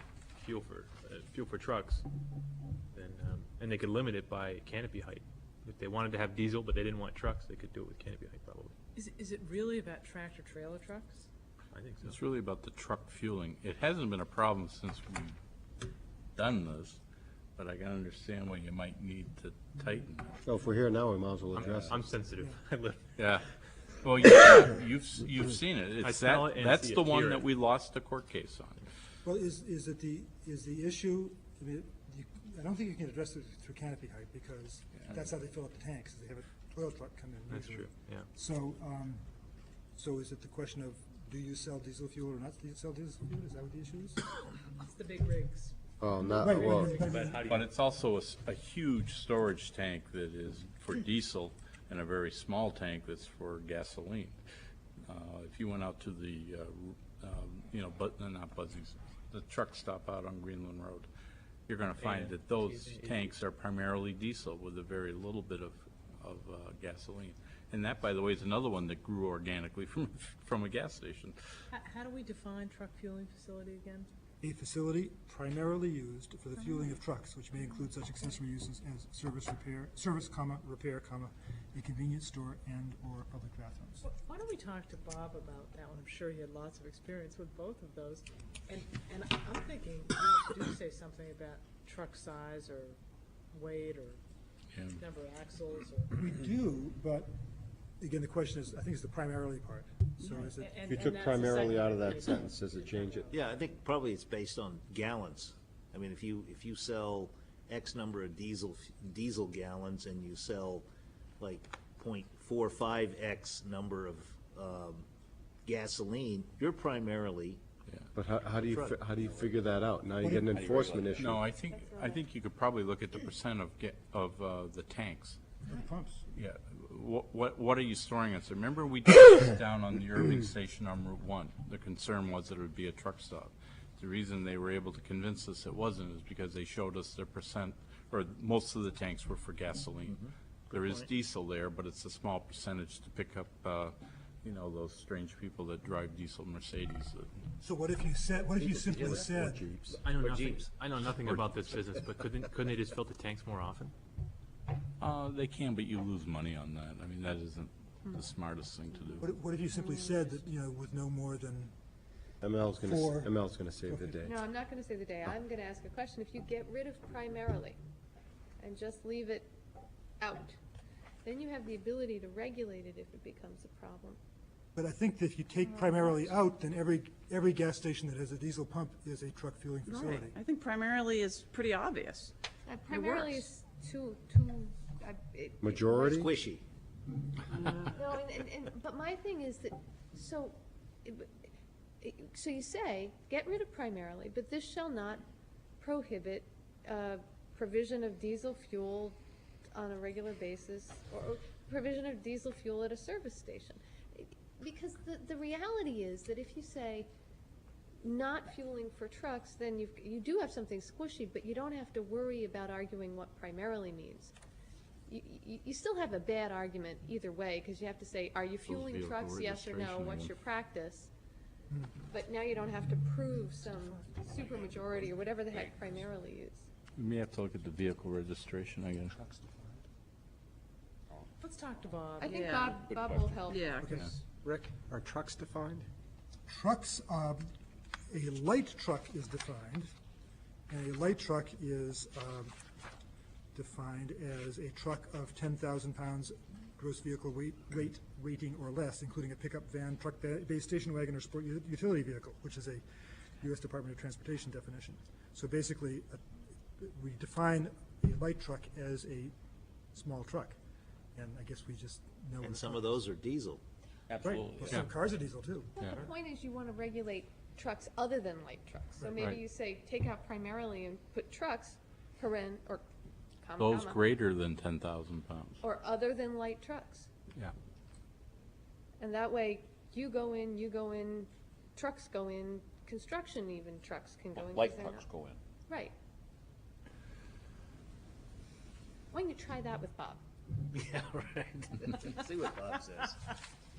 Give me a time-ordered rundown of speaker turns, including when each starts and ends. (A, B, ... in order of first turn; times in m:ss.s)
0:00.4-0:02.0 A
0:00.4-0:02.0 B
0:02.9-0:08.8 B
0:03.0-0:05.2 A
0:05.8-0:08.6 A
0:09.0-0:11.3 C
0:11.7-0:12.1 B
0:12.0-0:15.4 D
0:16.4-0:17.0 D
0:17.6-0:20.3 D
0:20.4-0:22.0 E
0:21.5-0:21.9 D
0:21.5-0:22.4 A
0:22.0-0:23.0 B
0:23.2-0:23.5 D
0:24.0-0:28.9 D
0:26.0-0:27.4 B
0:26.3-0:27.1 A
0:29.2-0:39.2 F
0:37.5-0:38.3 B
0:40.0-0:44.3 F
0:44.8-0:47.4 C
0:46.0-0:46.9 E
0:46.3-0:47.4 F
0:47.1-0:47.6 B
0:47.1-0:47.4 A
0:47.4-0:54.4 D
0:55.0-1:01.1 D
1:01.7-1:11.4 D
1:02.0-1:03.3 B
1:11.7-1:14.1 C
1:14.4-1:24.0 F
1:24.0-1:33.0 C
1:33.5-1:34.2 C
1:34.7-1:35.0 D
1:34.9-1:36.1 C
1:36.1-1:37.3 F
1:38.0-1:40.8 F
1:40.6-1:43.6 C
1:40.9-1:42.2 A
1:40.9-1:43.3 E
1:43.3-1:50.9 G
1:51.4-1:55.1 G
1:55.6-1:57.6 G
1:58.2-2:01.2 E
1:58.4-1:59.6 G
1:59.3-1:59.7 A
2:00.3-2:01.4 A
2:00.8-2:01.2 G
2:01.1-2:05.4 D
2:01.7-2:02.2 H
2:05.6-2:06.2 F
2:06.3-2:27.4 D
2:20.1-2:21.1 G
2:27.6-2:29.7 F
2:28.7-2:29.8 E
2:29.9-2:31.1 A
2:29.9-2:33.9 B
2:30.2-2:30.6 G
2:31.2-2:31.6 D
2:31.6-2:33.8 A
2:35.0-2:39.3 D
2:39.2-2:41.7 F
2:42.4-2:44.3 E
2:42.8-2:44.3 F
2:44.2-2:47.8 H
2:48.6-2:49.5 H
2:50.2-2:50.6 H
2:51.2-2:54.2 H
2:54.8-3:00.4 F
2:59.9-3:02.3 I
3:02.7-3:06.3 H
3:03.0-3:03.4 I
3:05.6-3:06.3 E
3:06.0-3:06.6 G
3:07.9-3:11.3 H
3:12.0-3:15.2 H
3:15.8-3:19.2 H
3:19.7-3:27.1 H
3:28.0-3:34.3 H
3:35.1-3:41.1 H
3:38.7-3:40.3 D
3:41.7-3:42.0 F
3:42.1-3:46.7 H
3:43.6-3:45.0 F
3:47.0-3:49.1 D
3:49.1-3:49.7 F
3:51.4-3:52.4 C
3:52.2-3:53.8 H
3:52.3-3:52.8 I
3:53.5-3:53.9 I
3:53.8-3:54.9 F
3:55.2-3:55.4 A
3:56.5-3:57.4 F
3:58.1-3:59.9 F
4:00.7-4:02.6 F
4:03.6-4:12.8 F
4:13.4-4:19.3 F
4:19.9-4:20.6 F
4:21.2-4:23.0 F
4:22.4-4:23.6 G
4:24.1-4:24.9 D
4:24.2-4:25.7 F
4:25.8-4:32.8 H
4:29.0-4:29.4 F
4:33.4-4:34.0 H
4:33.6-4:35.6 D
4:35.6-4:37.1 H
4:39.0-4:45.1 H
4:44.4-4:45.4 G
4:45.7-4:45.9 H
4:49.1-4:50.2 H
4:50.7-4:53.2 G